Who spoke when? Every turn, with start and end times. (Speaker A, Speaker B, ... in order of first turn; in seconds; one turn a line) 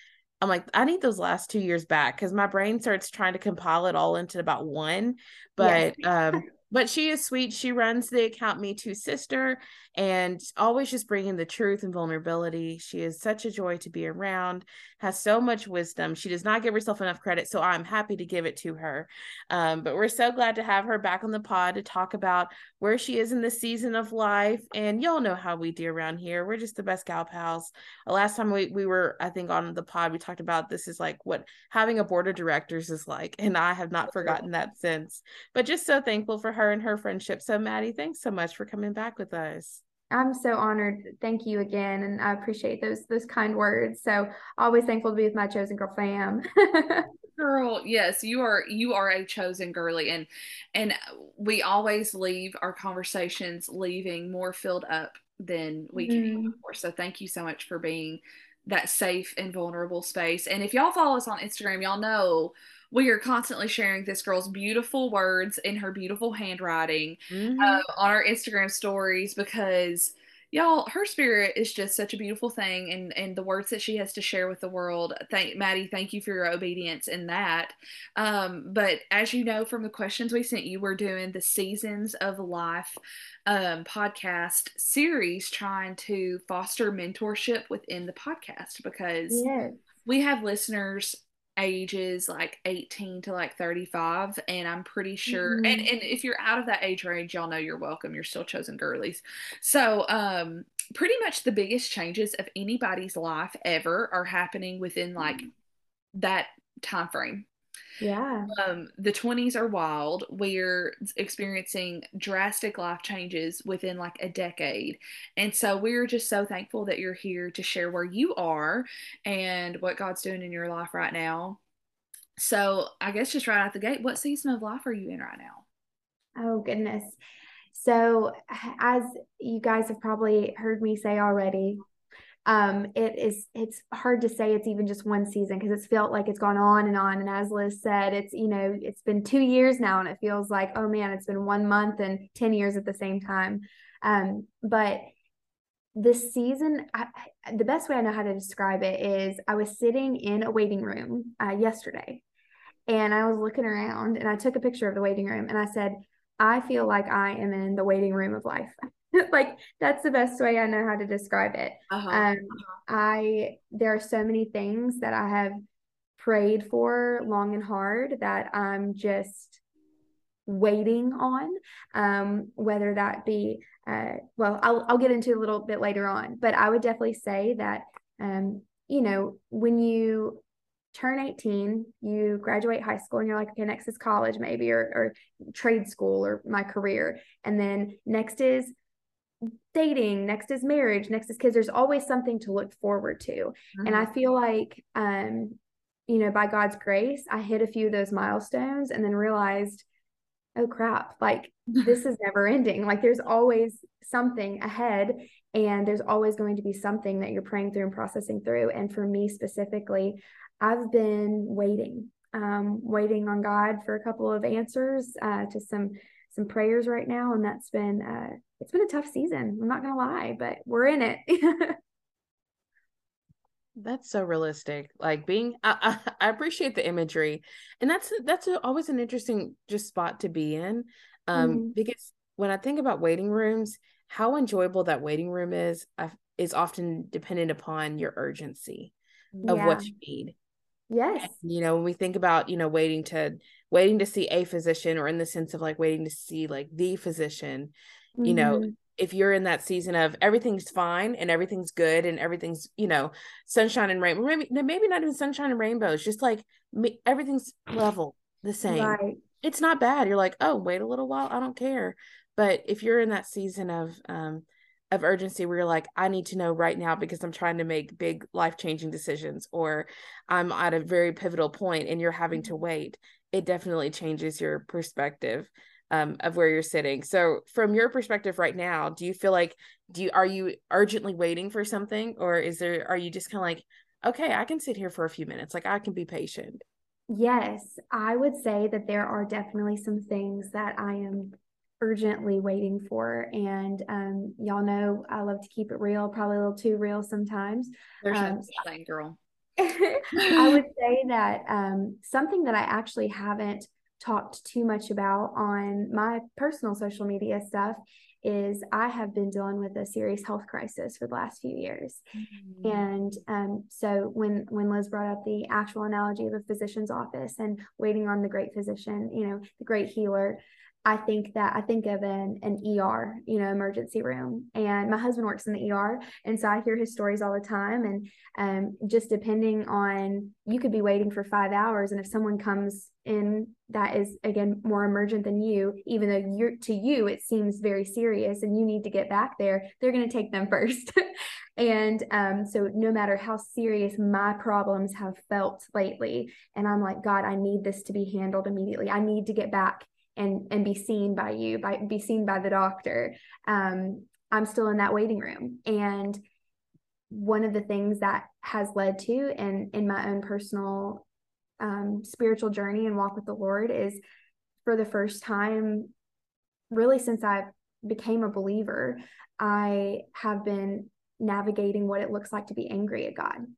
Speaker A: 0.4-39.8
Speaker B: 5.6-5.9
Speaker B: 40.1-47.1
Speaker C: 47.4-89.5
Speaker B: 56.0-56.6
Speaker A: 67.3-67.8
Speaker B: 89.3-89.8
Speaker C: 90.0-105.5
Speaker B: 95.3-95.9
Speaker C: 106.2-107.5
Speaker B: 108.0-108.5
Speaker C: 108.5-121.6
Speaker C: 122.4-125.6
Speaker B: 126.4-127.2
Speaker B: 127.7-131.8
Speaker B: 132.5-145.1
Speaker B: 146.0-152.2
Speaker B: 152.9-165.6
Speaker C: 161.9-162.7
Speaker B: 166.2-169.6
Speaker B: 170.5-180.4
Speaker B: 180.9-188.7
Speaker B: 189.7-195.6
Speaker C: 193.8-194.1
Speaker B: 196.1-199.8
Speaker B: 200.6-221.8
Speaker A: 223.8-238.9
Speaker B: 231.3-231.8
Speaker B: 239.5-239.9
Speaker A: 239.5-240.3
Speaker B: 240.9-241.4
Speaker A: 241.2-247.7
Speaker B: 248.2-248.7
Speaker A: 248.2-286.6
Speaker B: 258.6-259.2
Speaker B: 287.1-298.6
Speaker C: 298.0-299.2
Speaker B: 299.6-312.0
Speaker C: 300.2-300.6
Speaker C: 312.2-312.8
Speaker B: 312.6-340.9
Speaker B: 341.6-356.2
Speaker B: 357.1-361.1
Speaker B: 361.6-364.0
Speaker B: 364.6-365.9
Speaker B: 366.7-373.4